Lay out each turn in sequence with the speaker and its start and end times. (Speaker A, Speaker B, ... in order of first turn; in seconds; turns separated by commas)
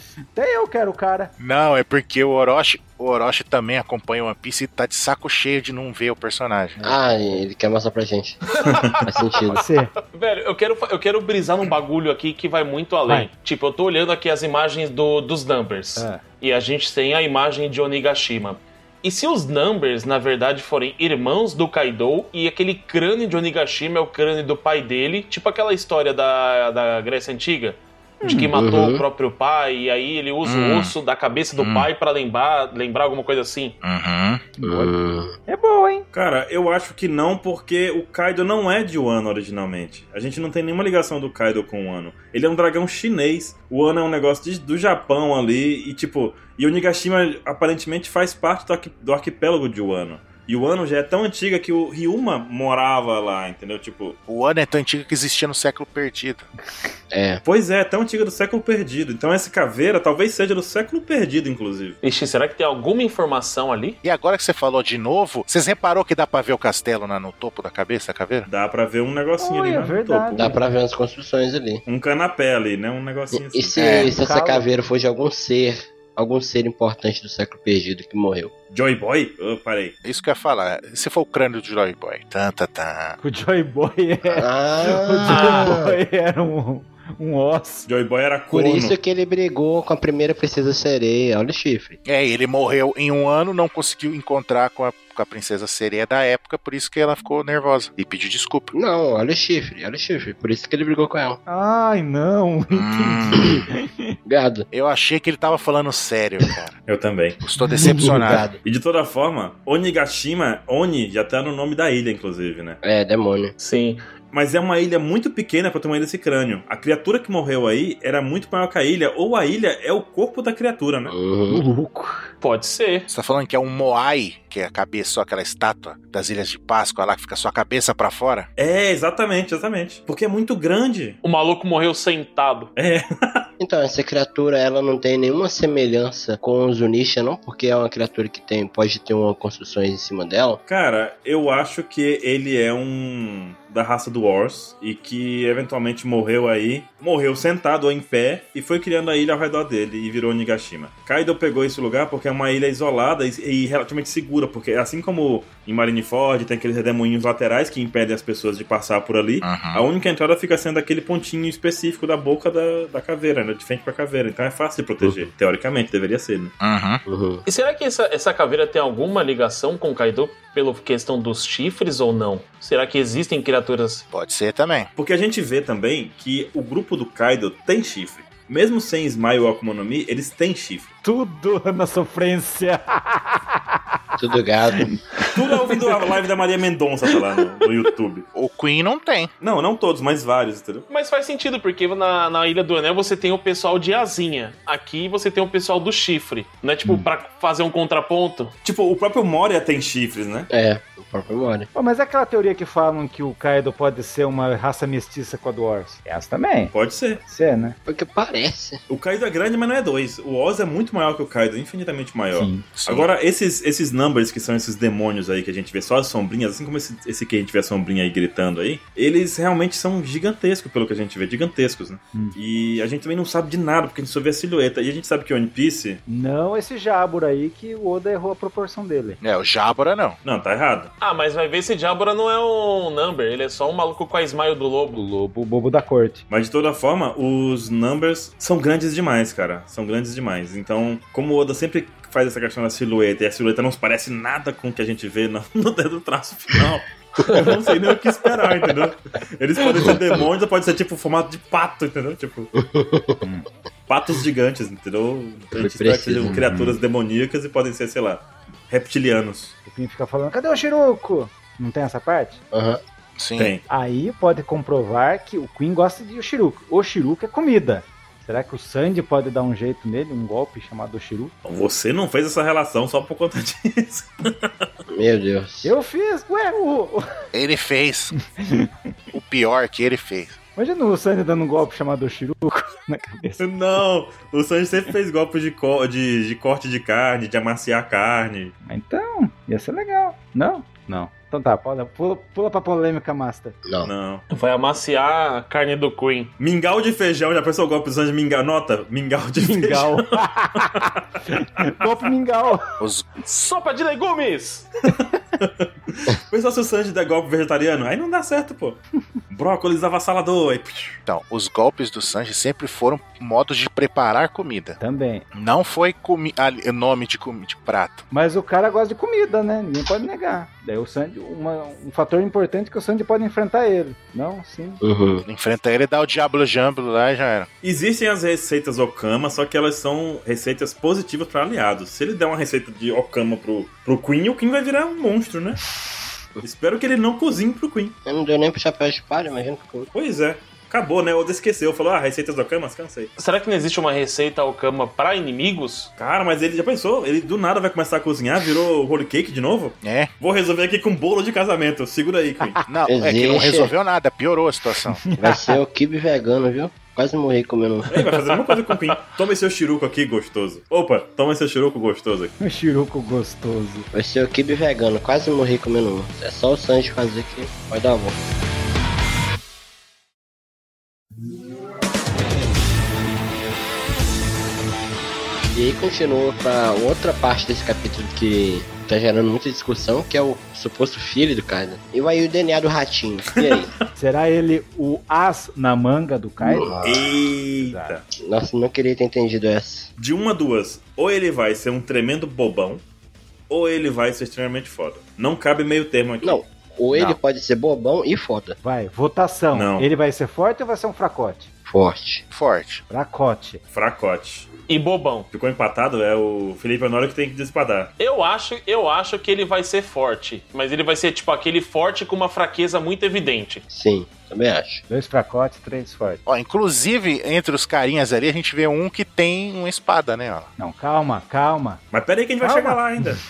Speaker A: 0.3-1.3, Speaker B: 1.4-6.8, Speaker A: 6.8-7.3, Speaker C: 6.8-8.4, Speaker D: 8.6-9.6, Speaker C: 9.0-9.6, Speaker A: 9.5-9.9, Speaker D: 10.1-33.7, Speaker A: 16.0-16.2, Speaker A: 28.2-28.5, Speaker C: 28.5-29.0, Speaker B: 30.4-30.9, Speaker B: 31.6-31.9, Speaker B: 33.8-34.5, Speaker A: 34.6-34.9, Speaker C: 34.6-35.4, Speaker A: 35.5-36.0, Speaker E: 36.1-54.2, Speaker B: 54.3-56.5, Speaker C: 57.1-57.4, Speaker E: 57.4-62.0, Speaker D: 62.0-64.0, Speaker B: 64.0-68.5, Speaker E: 68.5-70.5, Speaker A: 69.4-70.6, Speaker C: 70.3-71.8, Speaker E: 71.8-73.7, Speaker C: 73.3-78.5, Speaker B: 73.8-74.1, Speaker A: 74.0-74.7, Speaker E: 78.7-80.0, Speaker B: 80.0-83.2, Speaker A: 83.2-87.9, Speaker C: 84.3-85.9, Speaker D: 85.3-85.7, Speaker E: 87.9-88.9, Speaker C: 88.5-92.0, Speaker B: 92.0-98.7, Speaker C: 98.7-101.4, Speaker A: 101.5-104.2, Speaker B: 102.7-103.6, Speaker C: 104.2-104.7, Speaker B: 104.7-106.7, Speaker E: 106.9-107.4, Speaker B: 107.4-108.4, Speaker A: 107.7-108.3, Speaker C: 107.8-108.6, Speaker E: 108.6-112.8, Speaker C: 112.8-113.5, Speaker D: 113.6-114.0, Speaker E: 114.3-121.1, Speaker C: 121.1-121.6, Speaker A: 121.5-122.3, Speaker D: 122.4-123.1, Speaker B: 123.1-128.5, Speaker E: 128.6-131.2, Speaker D: 131.2-132.7, Speaker E: 132.8-133.4, Speaker C: 133.6-140.6, Speaker E: 140.7-166.5, Speaker B: 159.4-159.8, Speaker B: 166.6-167.0, Speaker C: 167.1-167.4, Speaker D: 167.4-174.0, Speaker B: 174.1-174.9, Speaker E: 174.9-180.9, Speaker A: 181.0-183.8, Speaker C: 184.2-185.0, Speaker E: 185.3-188.2, Speaker B: 188.3-189.3, Speaker E: 189.4-190.8, Speaker D: 190.9-198.5, Speaker E: 198.6-200.5, Speaker C: 200.5-201.7, Speaker A: 201.7-207.8, Speaker E: 206.7-207.2, Speaker C: 207.8-208.8, Speaker E: 208.9-226.0, Speaker A: 212.3-212.7, Speaker B: 212.7-213.1, Speaker A: 226.1-229.2, Speaker B: 229.2-230.2, Speaker E: 230.2-230.9, Speaker D: 231.0-235.0, Speaker A: 234.9-236.2, Speaker E: 236.3-252.5, Speaker C: 247.2-247.5, Speaker C: 252.6-253.2, Speaker E: 253.9-259.5, Speaker C: 255.5-256.4, Speaker A: 256.4-256.7, Speaker A: 259.6-262.4, Speaker C: 262.5-262.8, Speaker B: 263.2-263.5, Speaker E: 263.4-263.6, Speaker A: 263.7-271.3, Speaker E: 271.4-274.7, Speaker C: 274.9-275.7, Speaker A: 275.6-277.0, Speaker B: 277.3-278.1, Speaker A: 278.4-278.7, Speaker B: 279.1-280.4, Speaker A: 280.6-283.4, Speaker E: 283.4-288.5, Speaker A: 288.7-293.6, Speaker C: 293.6-293.9, Speaker E: 293.8-294.2, Speaker D: 294.3-296.3, Speaker E: 296.4-300.9, Speaker A: 299.4-302.6, Speaker B: 302.8-303.1, Speaker D: 303.2-304.7, Speaker E: 304.9-311.0, Speaker B: 311.1-314.8, Speaker A: 314.8-315.2, Speaker B: 315.3-318.0, Speaker A: 318.1-324.8, Speaker C: 324.8-325.2, Speaker B: 325.2-327.5, Speaker E: 327.6-335.7, Speaker E: 336.4-337.9, Speaker C: 338.1-339.9, Speaker E: 339.9-343.1, Speaker D: 343.2-345.9, Speaker E: 346.0-352.6, Speaker B: 349.8-350.1, Speaker B: 352.7-355.0, Speaker C: 352.9-353.7, Speaker A: 354.9-355.6, Speaker C: 355.2-357.9, Speaker E: 357.9-362.3, Speaker A: 362.4-363.9, Speaker C: 363.9-368.2, Speaker C: 375.5-383.8, Speaker E: 383.4-383.7, Speaker A: 383.9-386.9, Speaker C: 386.4-386.9, Speaker E: 386.8-388.0, Speaker A: 387.6-387.9, Speaker C: 388.2-389.9, Speaker E: 390.0-392.8, Speaker E: 393.5-396.4, Speaker C: 396.2-398.6, Speaker A: 398.6-401.5, Speaker E: 399.5-399.9, Speaker C: 401.6-402.2, Speaker B: 402.3-402.8, Speaker A: 402.9-403.6, Speaker E: 403.7-404.5, Speaker D: 404.7-405.3, Speaker E: 405.3-407.9, Speaker D: 408.0-413.6, Speaker C: 413.7-414.8, Speaker A: 414.9-416.2, Speaker B: 416.2-420.5, Speaker A: 420.6-421.8, Speaker E: 421.9-423.2, Speaker A: 422.4-423.2